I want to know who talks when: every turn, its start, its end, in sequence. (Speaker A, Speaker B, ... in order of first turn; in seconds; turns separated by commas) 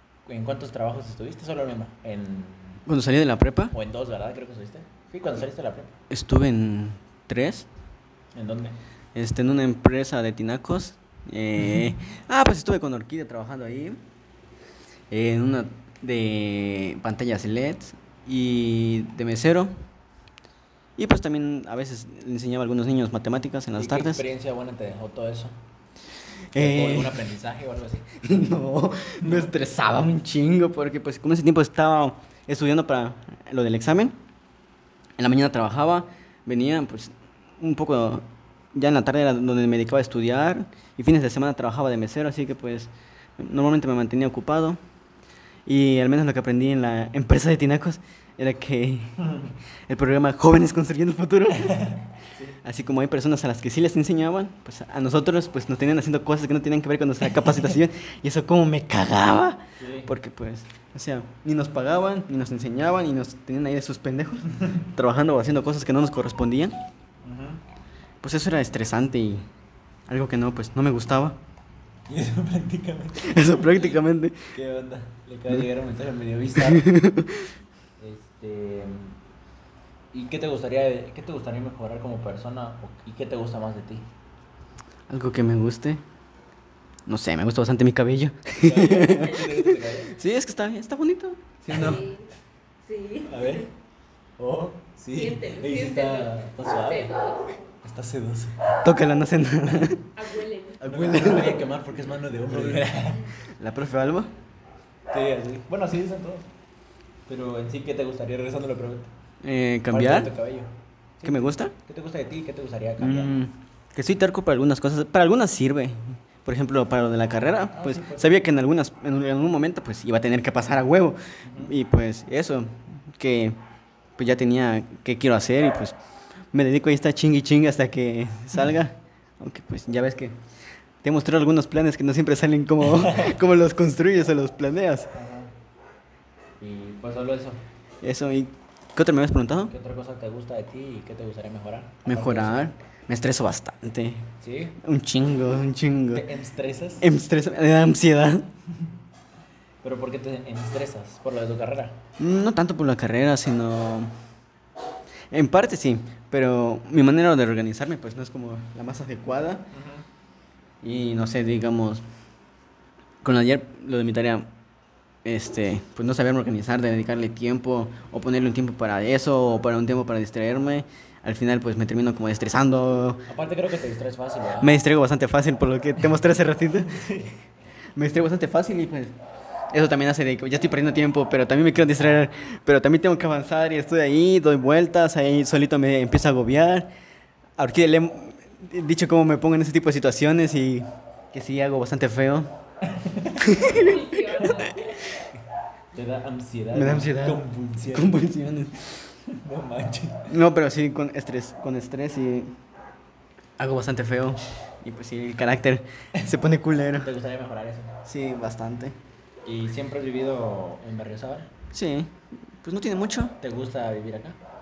Speaker A: 0.3-2.8, Speaker B: 2.9-3.7, Speaker A: 3.7-6.0, Speaker B: 6.1-7.7, Speaker A: 8.3-8.8, Speaker B: 9.2-14.0, Speaker B: 15.1-19.7, Speaker B: 21.0-24.2, Speaker A: 23.8-25.6, Speaker B: 26.5-27.2, Speaker A: 26.6-28.2, Speaker B: 28.2-34.2, Speaker A: 29.2-29.5, Speaker B: 35.2-44.8, Speaker B: 45.7-49.2, Speaker A: 49.2-49.5, Speaker B: 49.9-51.9, Speaker A: 51.6-52.6, Speaker B: 52.6-66.8, Speaker A: 59.8-60.1, Speaker A: 67.2-67.6, Speaker B: 68.2-69.5, Speaker B: 70.1-71.4, Speaker A: 72.1-73.9, Speaker B: 73.2-74.4, Speaker A: 74.5-76.9, Speaker B: 76.6-77.5, Speaker A: 78.0-79.2, Speaker A: 80.1-84.0, Speaker B: 85.1-86.0, Speaker B: 87.1-92.0, Speaker A: 88.6-90.2, Speaker A: 91.7-92.0, Speaker C: 91.7-92.3, Speaker C: 92.8-93.7, Speaker A: 93.3-93.7, Speaker A: 94.4-97.1, Speaker C: 95.1-97.5, Speaker A: 97.8-98.8, Speaker B: 98.8-100.0, Speaker C: 100.2-100.8, Speaker B: 100.8-101.7, Speaker A: 100.8-103.3, Speaker B: 102.5-102.9, Speaker B: 103.5-104.3, Speaker A: 105.1-106.5, Speaker A: 107.3-109.1, Speaker B: 109.4-110.3, Speaker A: 109.9-113.4, Speaker B: 111.2-111.7, Speaker B: 113.0-123.6, Speaker A: 117.7-118.5, Speaker A: 121.5-121.7, Speaker B: 124.2-126.0, Speaker B: 126.5-130.4, Speaker B: 131.0-135.1, Speaker A: 133.0-133.4, Speaker A: 135.2-135.5, Speaker A: 136.6-137.6, Speaker B: 138.0-139.7, Speaker A: 139.7-142.7, Speaker B: 142.1-144.2, Speaker A: 144.4-144.8, Speaker B: 144.8-146.3, Speaker A: 146.1-147.1, Speaker B: 147.0-148.5, Speaker A: 149.8-152.0, Speaker B: 152.2-154.1, Speaker B: 155.3-159.7, Speaker A: 159.7-160.1, Speaker B: 160.8-162.0, Speaker B: 163.2-164.5, Speaker B: 165.2-173.3, Speaker A: 173.3-174.8, Speaker B: 174.6-177.0, Speaker A: 176.8-177.4, Speaker B: 177.9-179.2, Speaker B: 179.7-186.9, Speaker B: 187.6-192.5, Speaker A: 192.8-193.8, Speaker B: 193.4-194.8, Speaker C: 193.6-195.1, Speaker A: 195.9-198.2, Speaker B: 196.7-199.0, Speaker A: 199.3-200.3, Speaker B: 200.3-202.6, Speaker B: 203.6-207.1, Speaker A: 207.0-208.0, Speaker B: 208.1-209.0, Speaker A: 209.5-211.5, Speaker B: 211.7-213.4, Speaker A: 213.4-214.4